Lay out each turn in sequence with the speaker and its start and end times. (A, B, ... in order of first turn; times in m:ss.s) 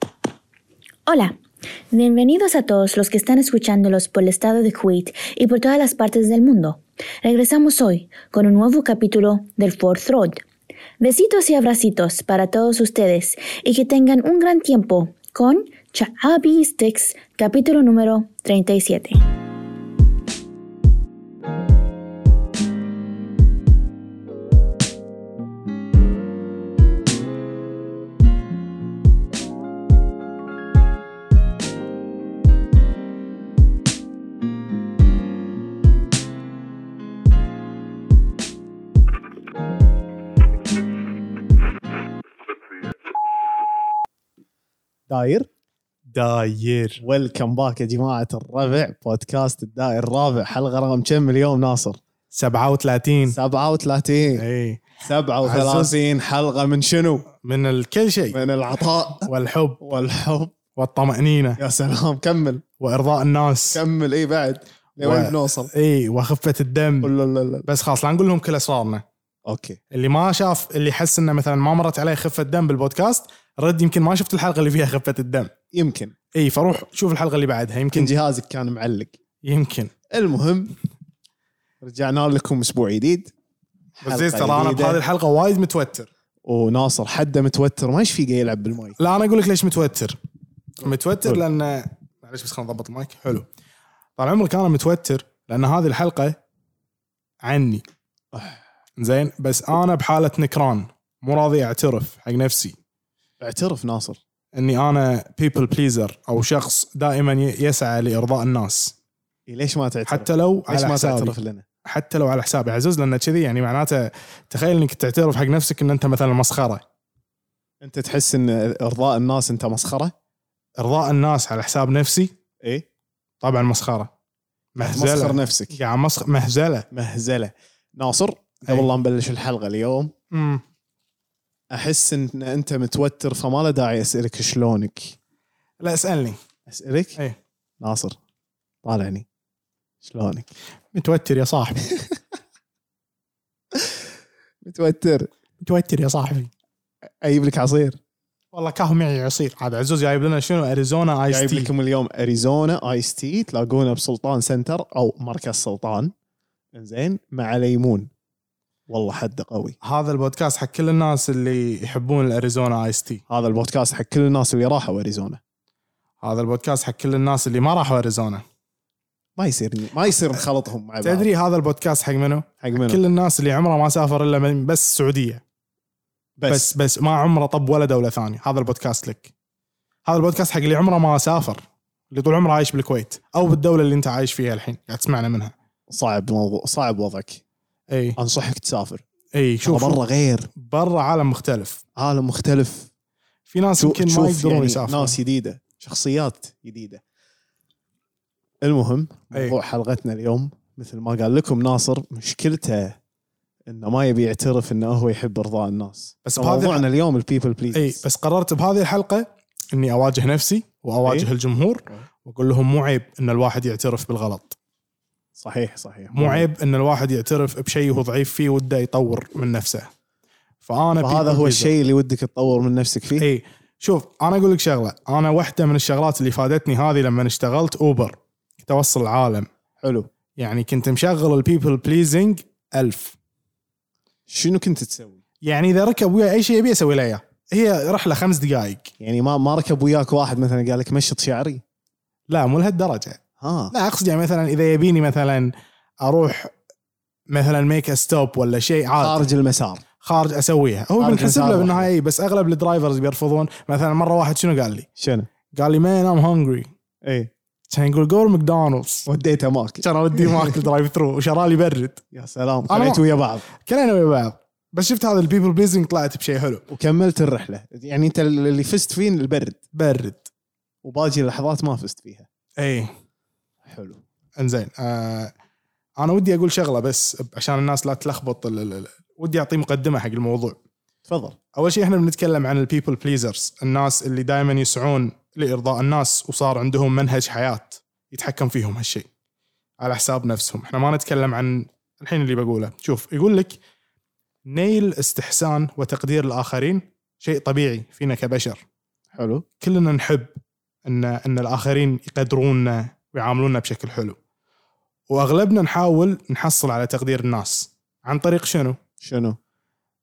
0:01.1-0:01.4 A
0:01.9-0:10.4 A
0:11.0-0:19.2 A
0:45.1-0:45.5 B
0:46.1-0:47.0 C
0:47.0-0:52.0 B
0:52.3-0:53.4 C
0:53.3-0:54.4 B
0:54.4-0:54.8 C
0:55.0-0:57.3 B
0:55.4-0:56.0 C
0:57.4-0:58.4 C
0:58.3-0:59.3 B
0:59.2-0:59.8 C
0:59.8-1:00.6 B
1:00.7-1:01.6 C
1:01.6-1:02.6 B
1:02.8-1:03.8 C
1:03.7-1:05.7 B
1:05.0-1:07.1 C
1:07.0-1:07.7 B
1:07.7-1:09.0 C
1:09.5-1:09.8 B
1:09.9-1:15.5 C
1:15.7-1:16.1 B
1:16.3-1:18.1 C
1:17.9-1:19.1 B
1:19.4-1:19.9 C
1:20.1-1:20.7 B
1:21.8-1:23.3 B
1:24.0-1:25.0 B
1:24.0-1:26.1 C
1:26.4-1:29.0 B
1:29.0-1:30.2 C
1:30.8-1:33.4 C
1:34.2-1:36.4 C
1:37.4-1:37.8 C
1:38.3-1:38.6 B
1:39.0-1:42.8 C
1:43.4-1:44.2 B
1:44.5-1:48.9 C
1:49.5-1:51.6 B
1:50.1-1:56.8 C
1:57.8-2:00.1 B
2:00.8-2:02.3 C
2:03.4-2:04.1 C
2:04.7-2:06.9 C
2:04.8-2:05.8 B
2:06.9-2:10.1 B
2:10.3-2:10.6 C
2:11.7-2:15.2 B
2:15.8-2:16.4 C
2:16.7-2:17.2 B
2:17.8-2:18.1 B
2:18.8-2:19.2 B
2:20.0-2:20.5 B
2:20.9-2:21.8 C
2:24.6-2:25.3 B
2:25.6-2:26.5 C
2:27.2-2:28.0 B
2:28.5-2:31.7 C
2:31.3-2:36.1 B
2:36.7-2:38.1 B
2:38.9-2:39.8 B
2:39.8-2:43.2 C
2:43.3-2:45.4 B
2:46.2-2:48.4 C
2:49.4-2:51.3 B
2:51.0-2:55.4 C
2:52.6-2:53.0 B
2:56.4-2:56.7 B
2:56.5-2:59.3 C
3:00.0-3:05.5 C
3:05.9-3:07.4 B
3:07.9-3:08.2 C
3:08.2-3:09.0 B
3:09.3-3:10.0 C
3:09.6-3:10.5 B
3:10.5-3:11.8 C
3:12.0-3:12.9 B
3:13.5-3:15.2 C
3:13.8-3:17.0 B
3:18.6-3:23.0 B
3:23.7-3:28.0 B
3:26.2-3:26.8 C
3:27.7-3:34.6 C
3:35.4-3:36.4 B
3:36.1-3:39.9 C
3:40.6-3:41.7 C
3:41.0-3:43.2 B
3:43.2-3:49.5 C
3:49.8-3:50.1 B
3:50.4-3:53.2 C
3:54.3-3:55.2 B
3:55.4-3:58.9 C
3:59.0-4:01.6 B
4:02.3-4:03.2 C
4:03.4-4:03.7 B
4:03.7-4:06.5 C
4:07.3-4:09.2 C
4:09.0-4:09.8 B
4:10.0-4:14.9 C
4:11.0-4:11.9 B
4:15.0-4:15.3 B
4:15.5-4:16.7 C
4:17.0-4:17.3 B
4:17.7-4:19.1 C
4:19.0-4:20.6 B
4:19.8-4:22.0 C
4:22.1-4:23.4 B
4:22.7-4:26.6 C
4:26.7-4:29.6 B
4:29.7-4:30.3 C
4:30.8-4:32.3 B
4:32.6-4:32.9 C
4:33.6-4:34.0 B
4:34.4-4:35.3 C
4:36.0-4:40.6 C
4:41.1-4:41.4 B
4:41.5-4:49.1 C
4:49.8-4:53.6 C
4:54.4-4:58.6 C
4:59.1-4:59.4 B
4:59.6-5:00.3 C
5:00.8-5:04.2 C
5:05.1-5:08.8 C
5:09.0-5:09.4 B